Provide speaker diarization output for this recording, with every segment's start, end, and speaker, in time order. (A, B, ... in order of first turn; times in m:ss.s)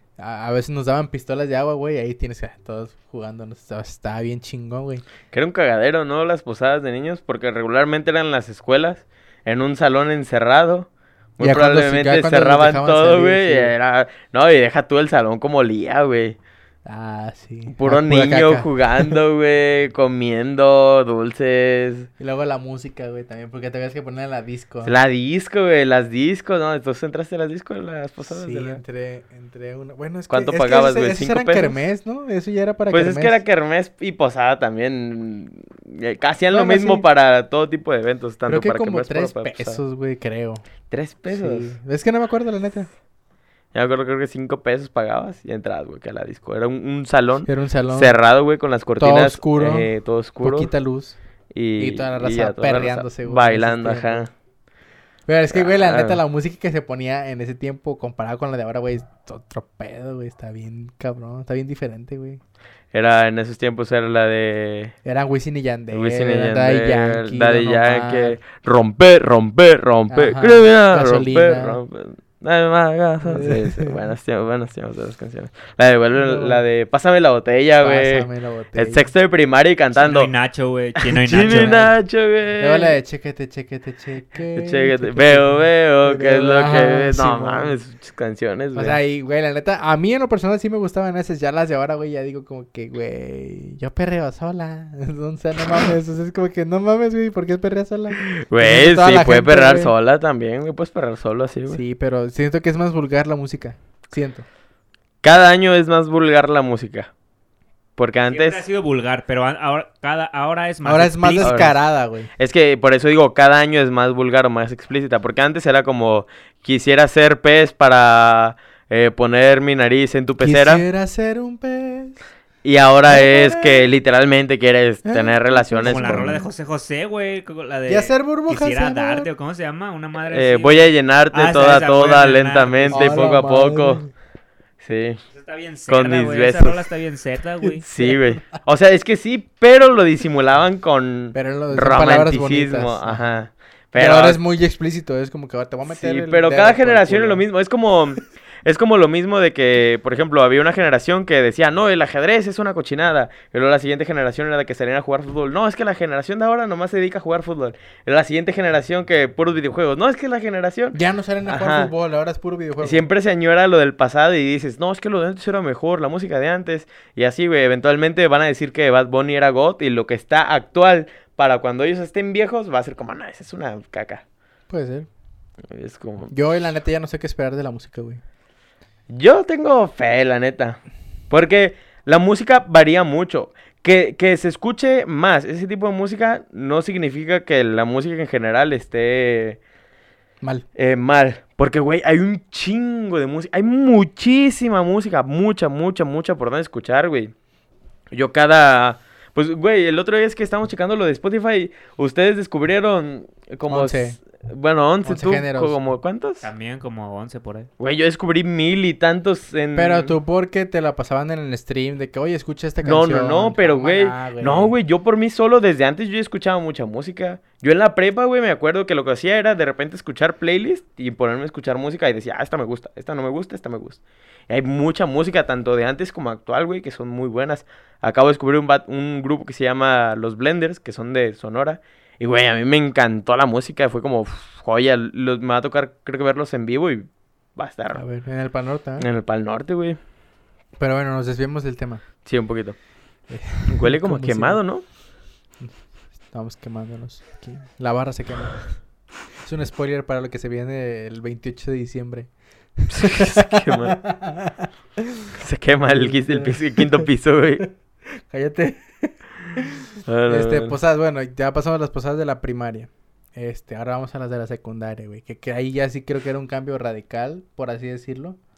0:00.2-0:05.0 A
0:05.3-0:16.4 B
0:11.4-0:13.7 A
0:16.8-0:19.2 A
0:17.7-0:22.1 B
0:22.2-0:24.9 A
0:24.8-0:28.8 B
0:28.3-0:33.4 A
0:30.3-0:31.7 B
0:32.9-0:39.8 B
0:36.5-0:37.0 A
0:38.5-0:40.6 A
0:40.9-0:41.8 B
0:41.3-0:42.9 A
0:43.7-0:50.7 B
0:47.4-0:48.2 A
0:49.0-0:49.9 A
0:50.4-0:51.2 A
0:51.5-0:54.3 B
0:51.8-0:54.2 A
0:55.3-1:02.4 A
0:55.5-0:56.2 B
1:02.9-1:04.9 B
1:05.0-1:08.4 A
1:05.9-1:20.3 B
1:10.1-1:11.8 A
1:13.2-1:14.0 A
1:16.1-1:16.6 A
1:17.8-1:19.1 A
1:20.0-1:21.8 C
1:21.1-1:23.0 B
1:21.3-1:22.0 A
1:22.6-1:27.8 A
1:24.6-1:29.0 B
1:28.7-1:39.9 A
1:38.2-1:41.8 B
1:41.7-1:44.4 A
1:45.2-1:47.1 B
1:48.0-1:48.6 B
1:48.3-1:51.6 C
1:50.8-1:52.3 A
1:51.4-1:51.7 B
1:52.4-2:00.8 B
2:00.4-2:02.2 A
2:02.6-2:06.4 B
2:03.1-2:03.8 A
2:05.0-2:06.4 A
2:05.8-2:13.1 C
2:07.9-2:09.3 A
2:10.3-2:14.0 B
2:12.9-2:14.1 A
2:14.8-2:15.2 B
2:15.3-2:17.8 C
2:15.9-2:16.8 B
2:17.7-2:18.6 A
2:17.8-2:24.4 B
2:21.3-2:23.2 A
2:24.0-2:27.4 A
2:25.9-2:41.9 B
2:40.9-2:43.0 A
2:42.8-2:54.2 B
2:54.7-2:55.1 A
2:55.7-2:56.3 B
2:56.3-2:58.2 A
2:59.1-3:09.6 B
3:10.7-3:17.3 B
3:18.1-3:26.5 B
3:23.7-3:24.2 A
3:25.0-3:25.8 A
3:26.4-3:27.7 C
3:27.8-3:30.2 B
3:29.8-3:34.7 A
3:32.8-3:58.0 B
3:57.9-3:59.1 A
3:59.0-4:00.0 B
4:00.8-4:02.0 A
4:02.2-4:02.8 B
4:03.3-4:04.6 A
4:03.6-4:04.8 B
4:06.3-4:08.7 A
4:09.4-4:14.7 A
4:12.9-4:14.0 B
4:15.4-4:17.6 B
4:15.8-4:17.1 A
4:18.3-4:28.4 A
4:20.1-4:20.8 B